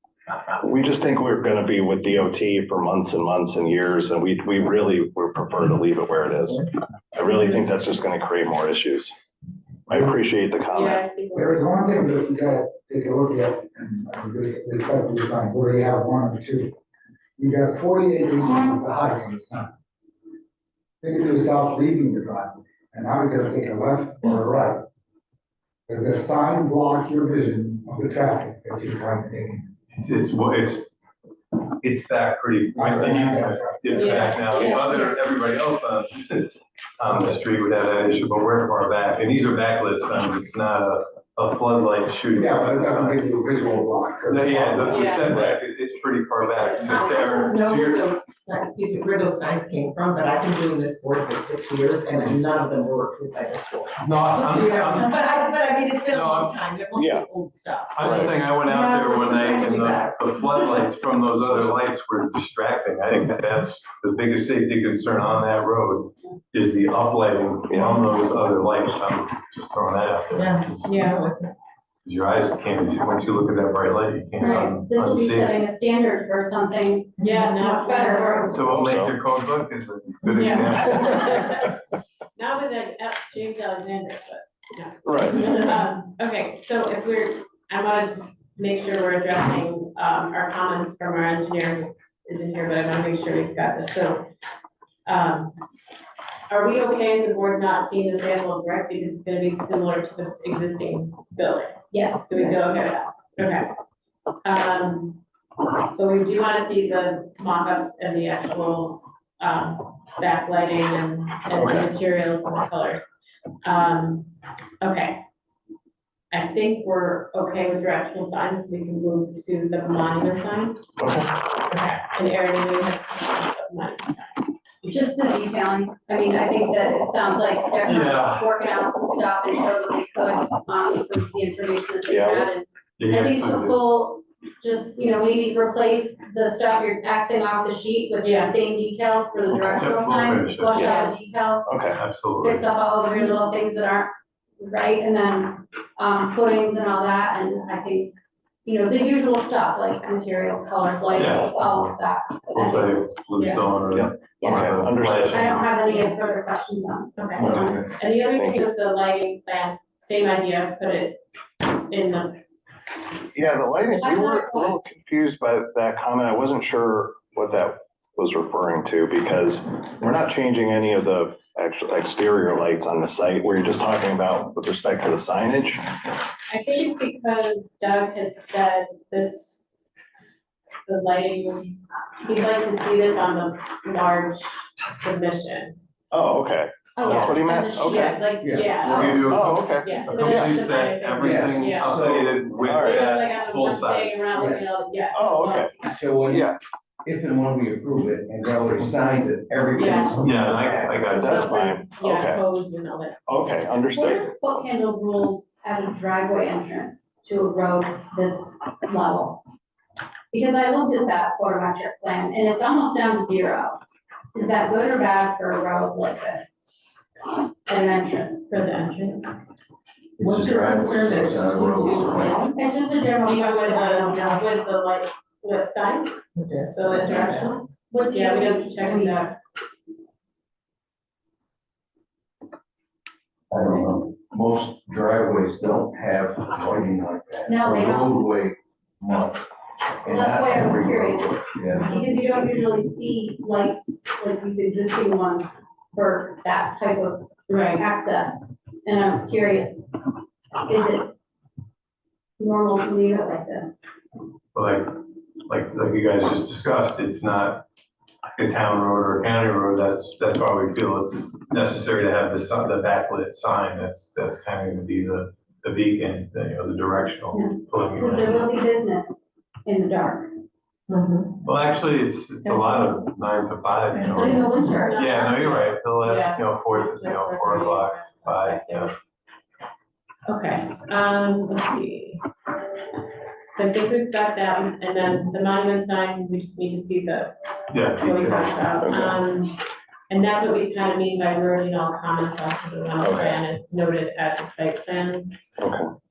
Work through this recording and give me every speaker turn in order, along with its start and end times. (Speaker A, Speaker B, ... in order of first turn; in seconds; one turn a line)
Speaker A: 0.3-9.1
Speaker A: 9.9-11.0
Speaker B: 10.7-11.8
Speaker C: 11.3-16.7
Speaker C: 17.4-19.7
Speaker C: 21.0-24.8
Speaker C: 25.9-29.7
Speaker D: 29.9-30.9
Speaker D: 31.8-43.2
Speaker C: 32.7-34.1
Speaker B: 33.9-35.1
Speaker E: 34.5-35.0
Speaker C: 42.3-45.3
Speaker D: 44.3-48.1
Speaker B: 44.9-45.3
Speaker B: 46.6-47.1
Speaker F: 46.8-60.2
Speaker D: 54.0-55.2
Speaker D: 56.1-56.6
Speaker A: 56.9-57.3
Speaker D: 57.9-71.0
Speaker A: 67.7-68.0
Speaker F: 70.3-71.5
Speaker B: 70.8-71.2
Speaker D: 72.0-75.5
Speaker E: 74.4-78.7
Speaker B: 77.2-78.7
Speaker D: 78.5-81.5
Speaker A: 78.7-79.1
Speaker B: 80.3-81.6
Speaker B: 82.3-94.2
Speaker A: 85.0-85.4
Speaker B: 95.0-95.5
Speaker B: 96.5-101.8
Speaker E: 101.9-102.7
Speaker B: 102.3-103.7
Speaker B: 104.4-105.2
Speaker B: 105.9-113.0
Speaker A: 111.5-111.8
Speaker B: 113.6-115.2
Speaker B: 116.3-120.8
Speaker A: 121.0-121.3
Speaker B: 121.7-125.1
Speaker E: 124.8-141.7
Speaker D: 127.8-128.5
Speaker A: 132.1-132.5
Speaker D: 133.0-133.8
Speaker B: 138.2-138.6
Speaker A: 139.5-139.9
Speaker D: 139.7-140.8
Speaker A: 140.7-141.1
Speaker B: 140.8-141.1
Speaker A: 141.7-142.0
Speaker D: 141.9-142.7
Speaker E: 142.4-153.8
Speaker B: 143.1-143.3
Speaker D: 151.1-151.9
Speaker D: 152.5-155.7
Speaker A: 153.8-155.4
Speaker E: 155.3-158.0
Speaker B: 157.2-162.4
Speaker G: 157.3-158.0
Speaker A: 158.3-158.7
Speaker A: 163.3-175.8
Speaker E: 164.0-164.9
Speaker B: 176.5-179.6
Speaker B: 180.9-181.7
Speaker B: 182.2-185.8
Speaker A: 186.1-188.2
Speaker E: 186.9-188.3
Speaker B: 187.0-192.0
Speaker G: 188.4-189.3
Speaker D: 188.8-194.3
Speaker A: 189.2-190.6
Speaker G: 191.2-192.4
Speaker A: 192.7-193.1
Speaker B: 192.8-196.0
Speaker G: 194.3-194.7
Speaker A: 195.1-196.6
Speaker G: 195.8-196.5
Speaker G: 197.0-200.9
Speaker B: 199.8-200.2
Speaker D: 200.2-201.8
Speaker B: 201.1-203.7
Speaker A: 201.2-202.4
Speaker A: 203.3-204.3
Speaker E: 203.9-209.4
Speaker E: 210.3-213.8
Speaker E: 214.3-216.6
Speaker E: 217.7-218.5
Speaker B: 218.5-219.3
Speaker G: 220.2-222.4
Speaker F: 220.2-222.5
Speaker E: 222.4-224.4
Speaker B: 223.2-229.3
Speaker F: 226.3-227.6
Speaker E: 227.9-229.3
Speaker G: 233.5-239.5
Speaker E: 237.5-238.2
Speaker G: 240.0-242.0
Speaker E: 240.1-249.9
Speaker B: 247.5-247.8
Speaker E: 250.7-251.1
Speaker E: 252.4-253.8
Speaker D: 254.5-254.9
Speaker D: 255.5-257.6
Speaker D: 258.4-268.5
Speaker E: 267.3-270.4
Speaker B: 270.9-271.4
Speaker D: 271.4-278.9
Speaker B: 272.3-273.0
Speaker E: 274.1-275.0
Speaker B: 274.1-278.9
Speaker B: 280.3-282.2
Speaker B: 283.5-287.3
Speaker D: 287.7-288.8
Speaker B: 287.9-295.4
Speaker A: 288.8-289.1
Speaker A: 293.0-293.4
Speaker A: 295.6-295.9